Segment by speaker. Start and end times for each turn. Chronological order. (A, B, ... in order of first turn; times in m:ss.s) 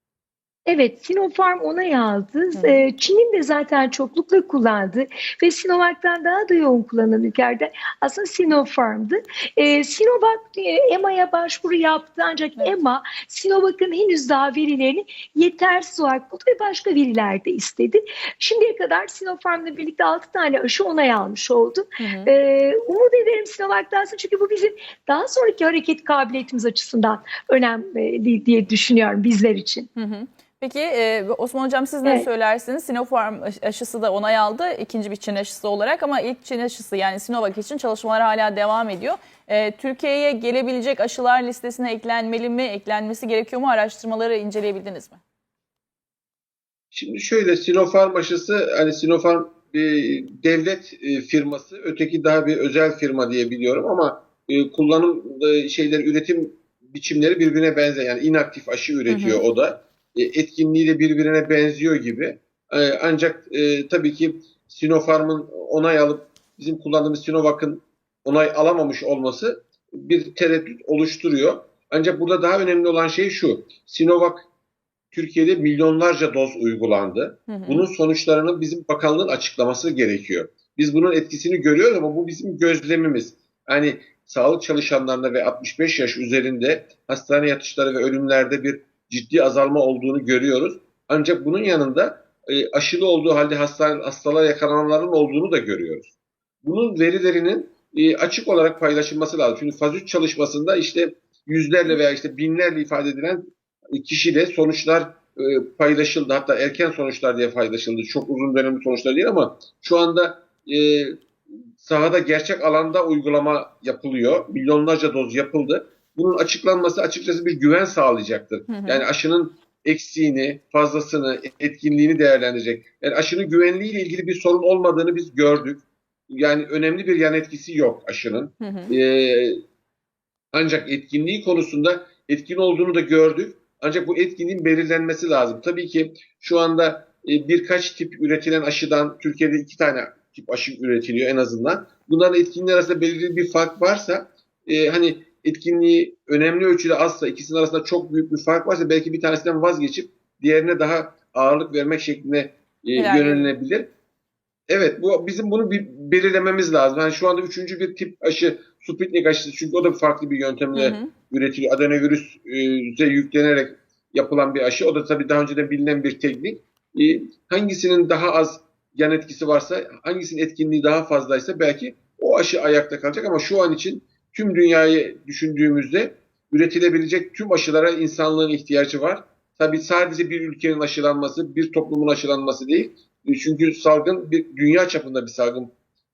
0:00.6-0:29.9 A
0:02.6-0:02.8 B
0:22.0-0:22.3 B
0:30.0-0:45.2 B
0:46.9-1:14.5 C
0:59.1-0:59.4 B
1:15.1-1:51.2 C
1:17.5-1:17.8 B
1:51.8-2:09.6 C
1:58.7-1:59.0 B
2:08.6-2:08.9 B
2:10.5-2:33.9 C
2:33.0-2:33.5 B
2:34.7-3:05.7 C
2:40.7-2:41.1 B